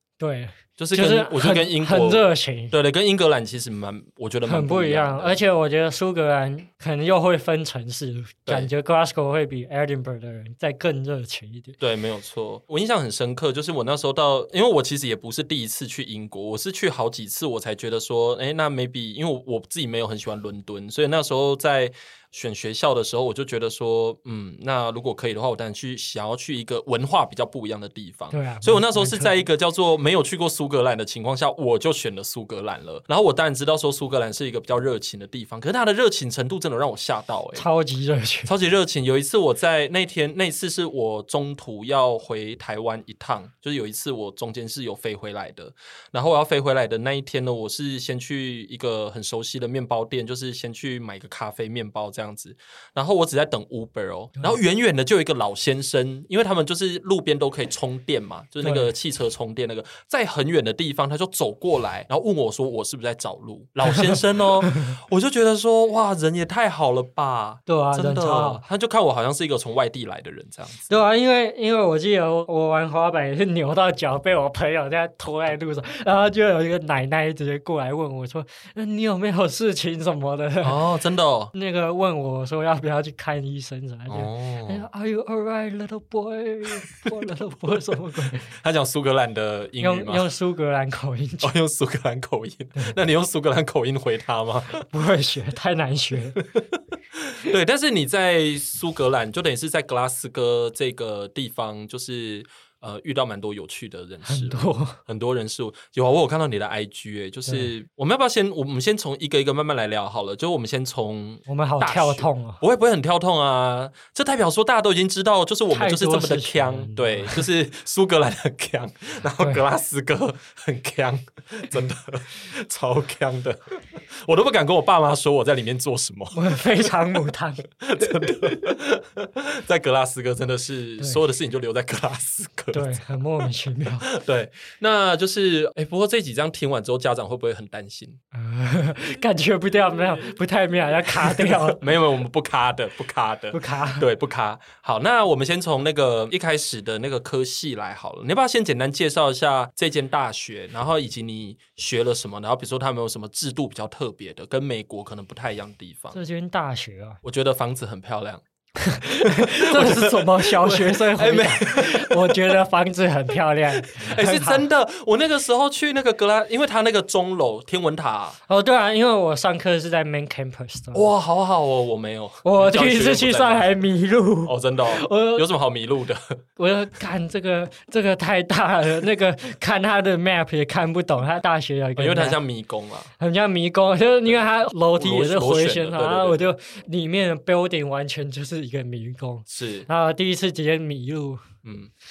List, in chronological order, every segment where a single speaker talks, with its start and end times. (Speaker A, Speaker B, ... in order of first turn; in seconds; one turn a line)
Speaker A: 0.2-2.7
Speaker B: 0.8-5.4
Speaker A: 4.5-11.8
Speaker B: 11.8-37.6
Speaker A: 28.3-29.4
Speaker A: 37.5-38.5
Speaker B: 38.5-70.9
Speaker A: 58.6-58.9
Speaker A: 63.9-64.8
Speaker A: 67.7-68.6
Speaker A: 70.9-80.8
Speaker B: 80.6-81.5
Speaker A: 81.5-88.5
Speaker B: 84.1-84.8
Speaker B: 87.7-90.3
Speaker A: 89.8-91.5
Speaker B: 91.4-94.9
Speaker A: 94.9-96.4
Speaker B: 96.4-126.8
Speaker A: 104.2-105.0
Speaker A: 111.5-112.6
Speaker A: 115.7-117.5
Speaker A: 126.3-127.6
Speaker B: 127.7-133.4
Speaker A: 132.7-134.1
Speaker B: 134.0-138.2
Speaker A: 138.3-141.8
Speaker B: 141.1-156.2
Speaker A: 143.5-144.1
Speaker A: 156.1-157.2
Speaker B: 157.2-158.4
Speaker A: 158.8-164.6
Speaker B: 159.2-162.6
Speaker B: 163.8-168.4
Speaker A: 168.5-171.1
Speaker B: 170.9-173.7
Speaker A: 172.4-175.4
Speaker B: 174.4-176.3
Speaker A: 176.6-182.4
Speaker B: 182.0-183.1
Speaker A: 183.2-191.4
Speaker B: 184.9-186.5
Speaker B: 189.5-189.9
Speaker B: 191.6-191.9